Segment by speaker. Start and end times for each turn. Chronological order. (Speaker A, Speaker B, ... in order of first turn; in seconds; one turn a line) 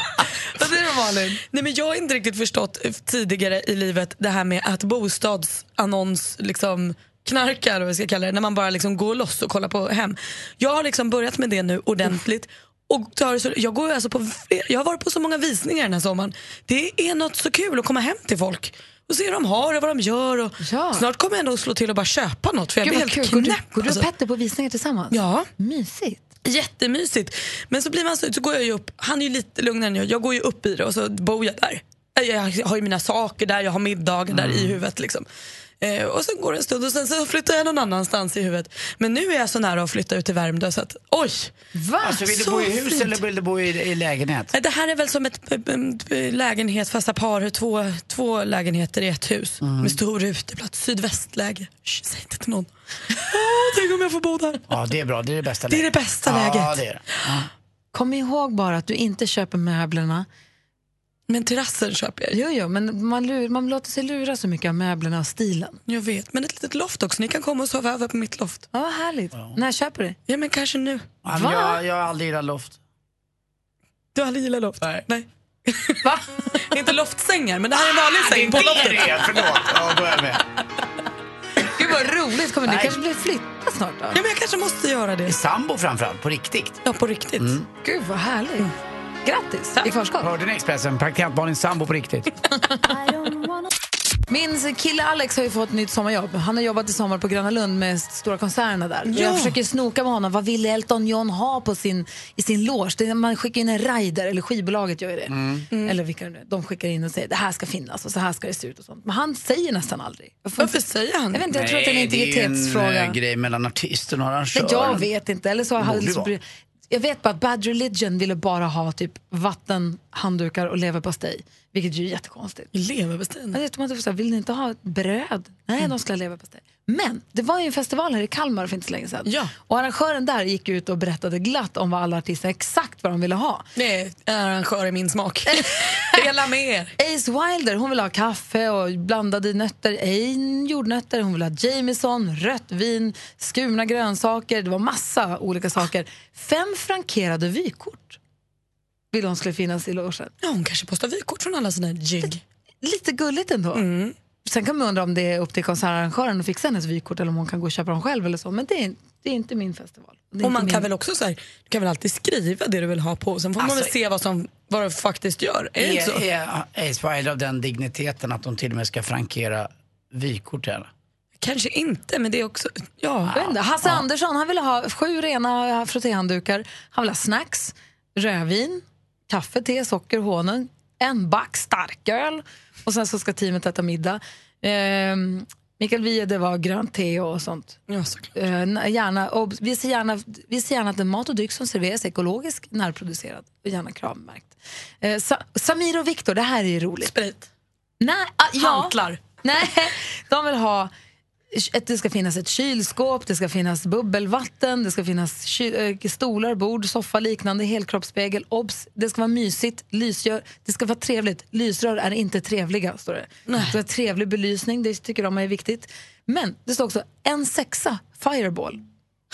Speaker A: 0.5-1.4
Speaker B: 1.5-24.1
Speaker A: 20.6-21.0
Speaker A: 22.8-26.2
Speaker B: 25.1-25.5
Speaker B: 26.4-35.3
Speaker C: 34.3-34.8
Speaker B: 35.8-41.5
Speaker A: 41.7-42.3
Speaker C: 42.0-44.5
Speaker B: 42.3-43.2
Speaker B: 44.5-54.6
Speaker C: 49.6-50.0
Speaker C: 54.7-57.5
Speaker B: 55.7-57.4
Speaker A: 57.9-60.3
Speaker B: 61.3-62.4
Speaker A: 62.3-65.8
Speaker B: 65.9-68.7
Speaker A: 68.7-70.2
Speaker B: 70.3-71.1
Speaker C: 71.2-72.8
Speaker A: 71.3-71.8
Speaker B: 74.2-79.4
Speaker C: 78.2-80.4
Speaker A: 81.6-84.2
Speaker C: 82.7-83.0
Speaker B: 84.1-85.4
Speaker C: 85.2-86.8
Speaker B: 86.8-87.6
Speaker C: 87.4-87.7
Speaker A: 87.8-88.7
Speaker A: 89.2-90.3
Speaker C: 90.2-92.3
Speaker A: 94.3-105.3
Speaker C: 99.1-99.5
Speaker B: 99.1-99.4
Speaker C: 105.3-105.7
Speaker B: 105.7-106.0
Speaker A: 105.8-110.8
Speaker B: 110.6-111.5
Speaker A: 111.3-113.2
Speaker C: 111.5-115.1
Speaker A: 114.5-122.7
Speaker C: 115.8-116.3
Speaker B: 122.7-123.6
Speaker A: 123.5-133.7
Speaker B: 129.3-129.5
Speaker B: 133.8-136.9
Speaker A: 137.0-148.2
Speaker A: 149.1-150.3
Speaker B: 150.4-152.4
Speaker A: 152.2-153.8
Speaker B: 153.7-154.2
Speaker A: 154.4-160.9
Speaker B: 160.4-166.2
Speaker C: 163.6-163.9
Speaker C: 165.8-170.9
Speaker B: 171.4-173.5
Speaker A: 173.3-187.8
Speaker B: 187.9-188.3
Speaker A: 188.4-197.1
Speaker B: 197.0-197.5
Speaker A: 198.0-200.9
Speaker B: 198.6-199.2
Speaker A: 201.5-218.8
Speaker B: 213.5-213.7